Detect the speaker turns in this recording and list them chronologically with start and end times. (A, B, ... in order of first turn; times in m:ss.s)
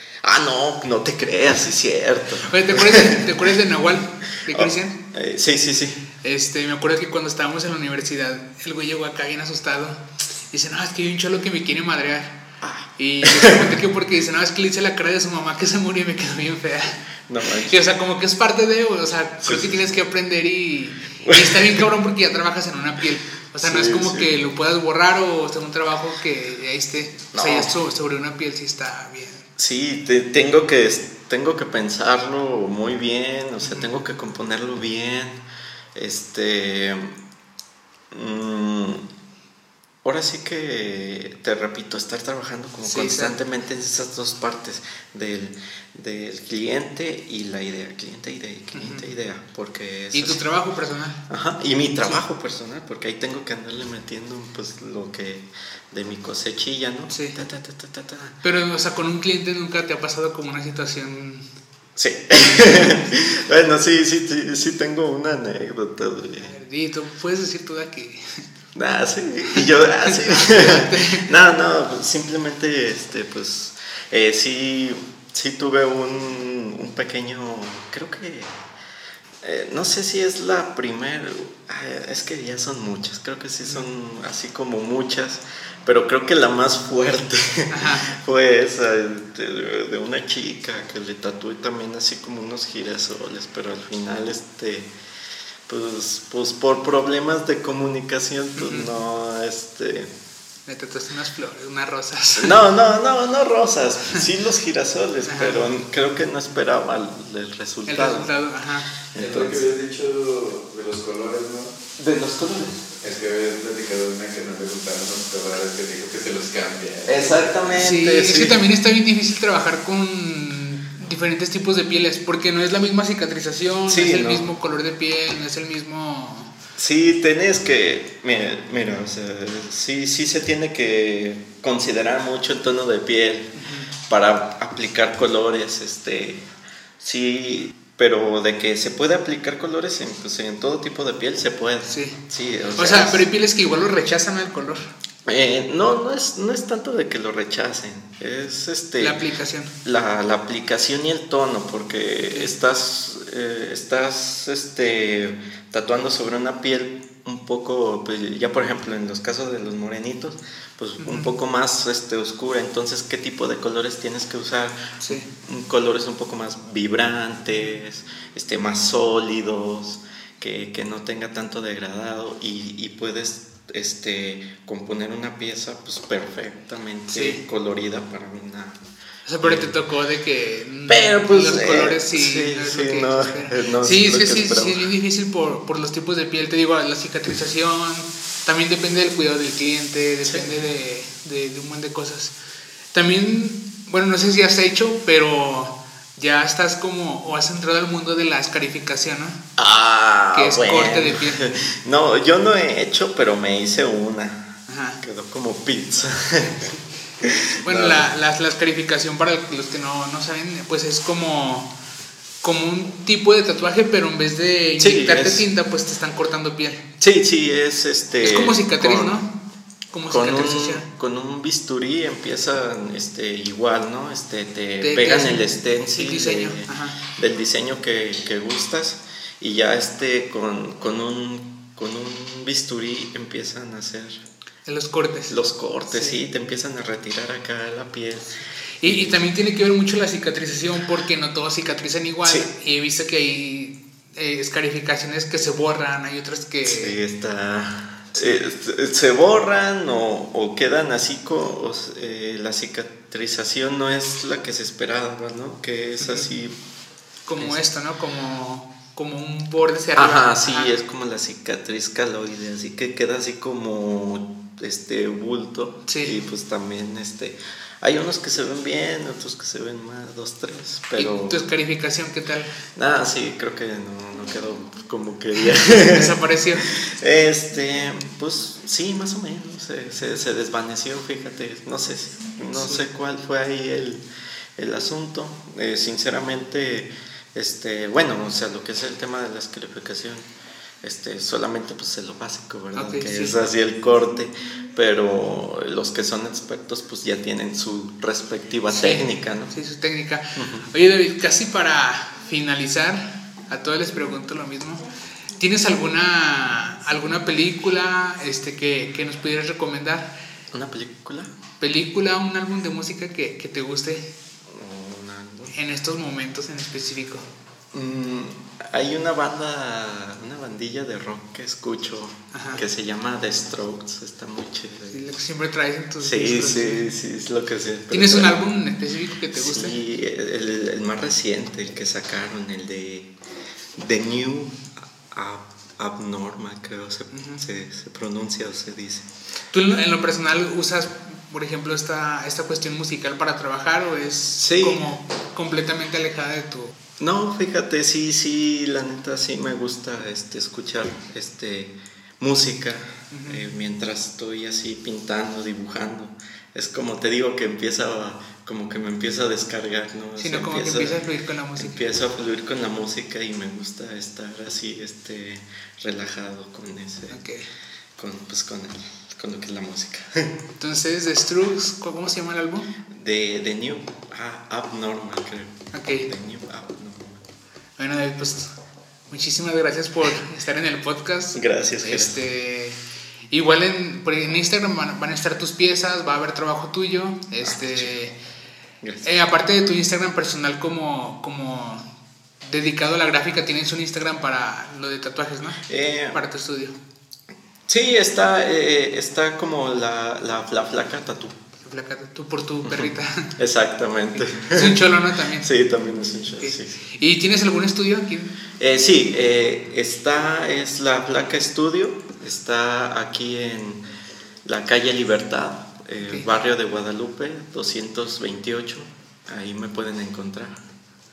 0:00.2-0:03.5 A
0:02.5-0:05.0 B
0:04.4-0:06.0 A
0:06.2-0:12.4 B
0:12.6-0:13.8 A
0:13.0-0:17.0 B
0:17.3-0:17.8 A
0:17.6-0:29.5 B
0:19.4-0:19.8 A
0:21.2-0:21.8 A
0:23.6-0:24.4 A
0:27.3-0:27.8 A
0:29.6-0:35.4 A
0:33.6-0:33.9 B
0:36.0-0:37.2 A
0:38.1-0:39.0 A
0:40.0-0:50.4 A
0:42.8-0:43.4 B
0:48.8-0:49.1 B
0:50.1-0:51.2 B
0:51.3-0:58.4 A
0:52.0-0:52.2 B
0:57.1-0:57.4 B
0:58.4-1:01.5 B
1:02.0-1:06.5 A
1:02.6-1:03.0 B
1:06.4-1:08.4 B
1:08.7-1:18.6 A
1:09.6-1:11.3 B
1:19.4-1:34.9 A
1:27.7-1:28.1 B
1:35.7-1:40.1 A
1:38.6-1:38.9 B
1:40.7-1:42.6 B
1:42.4-1:48.3 A
1:45.2-1:45.6 B
1:47.9-1:48.9 B
1:49.1-1:49.7 A
1:49.2-1:51.9 C
1:52.0-1:53.0 A
1:53.0-1:57.7 C
1:57.0-1:58.6 A
1:57.8-2:06.5 B
2:03.9-2:04.5 A
2:06.8-2:13.6 A
2:13.6-2:13.9 B
2:14.1-2:16.4 A
2:17.0-2:23.2 A
2:21.9-2:22.2 B
2:22.8-2:24.9 B
2:25.3-2:29.2 A
2:29.0-2:29.7 B
2:29.8-2:44.8 A
2:41.0-2:41.3 B
2:45.0-2:45.3 B
2:45.4-2:58.8 A
2:57.1-2:57.4 B
2:59.3-3:12.3 B
2:59.4-2:59.7 A
3:00.9-3:04.9 A
3:10.2-3:10.5 A
3:12.9-3:19.4 B
3:19.6-3:28.1 A
3:20.3-3:21.5 B
3:24.7-3:25.0 B
3:27.6-3:31.7 B
3:32.4-3:36.8 B
3:34.8-3:35.5 A
3:37.0-3:39.2 A
3:38.2-3:39.3 B
3:39.9-3:40.9 B
3:40.1-3:54.2 A
3:44.8-3:47.0 B
3:54.7-3:55.4 B
3:55.3-3:59.2 A
3:55.9-3:56.2 B
3:58.8-4:07.0 B
4:02.2-4:02.5 A
4:06.6-4:16.6 A
4:08.2-4:08.4 B
4:16.0-4:16.3 B
4:17.3-4:20.7 B
4:17.4-4:17.6 A
4:20.0-4:31.4 A
4:25.9-4:26.2 B
4:31.0-4:32.5 B
4:32.7-4:44.0 A
4:35.6-4:36.7 B
4:42.5-4:42.8 B
4:44.6-4:50.3 A
4:50.8-4:59.6 A
4:52.8-4:53.4 B
4:58.7-5:10.1 B
5:00.4-5:00.7 A
5:10.5-5:11.3 A
5:11.6-5:14.1 B
5:14.5-5:15.6 A
5:15.5-5:17.3 B
5:17.7-5:25.0 A
5:22.3-5:22.6 B
5:24.9-5:26.9 B
5:26.0-5:28.5 A
5:27.9-5:29.8 B
5:29.4-5:33.1 A
5:33.8-5:39.1 A
5:37.1-5:37.4 B
5:39.5-5:46.7 B
5:44.4-5:44.9 A
5:47.0-6:01.0 A
5:53.1-5:53.4 B
6:00.2-6:01.8 B
6:01.6-6:07.2 A
6:07.1-6:07.5 B
6:08.0-6:10.3 A
6:10.6-6:12.7 B
6:12.9-6:15.5 A
6:15.7-6:16.1 B
6:16.1-6:17.2 A
6:17.8-6:18.5 B
6:19.1-6:28.2 B
6:21.4-6:22.2 A
6:27.4-6:28.0 A
6:28.8-6:29.1 A
6:29.0-6:31.8 B
6:32.4-6:35.6 B
6:35.7-6:36.2 A
6:36.1-6:36.8 B
6:37.7-6:41.4 A
6:41.6-6:43.4 B
6:42.6-6:44.8 A
6:44.2-6:45.5 B
6:45.4-6:46.8 A
6:46.4-6:48.3 B
6:48.6-6:53.8 A
6:54.4-7:00.6 A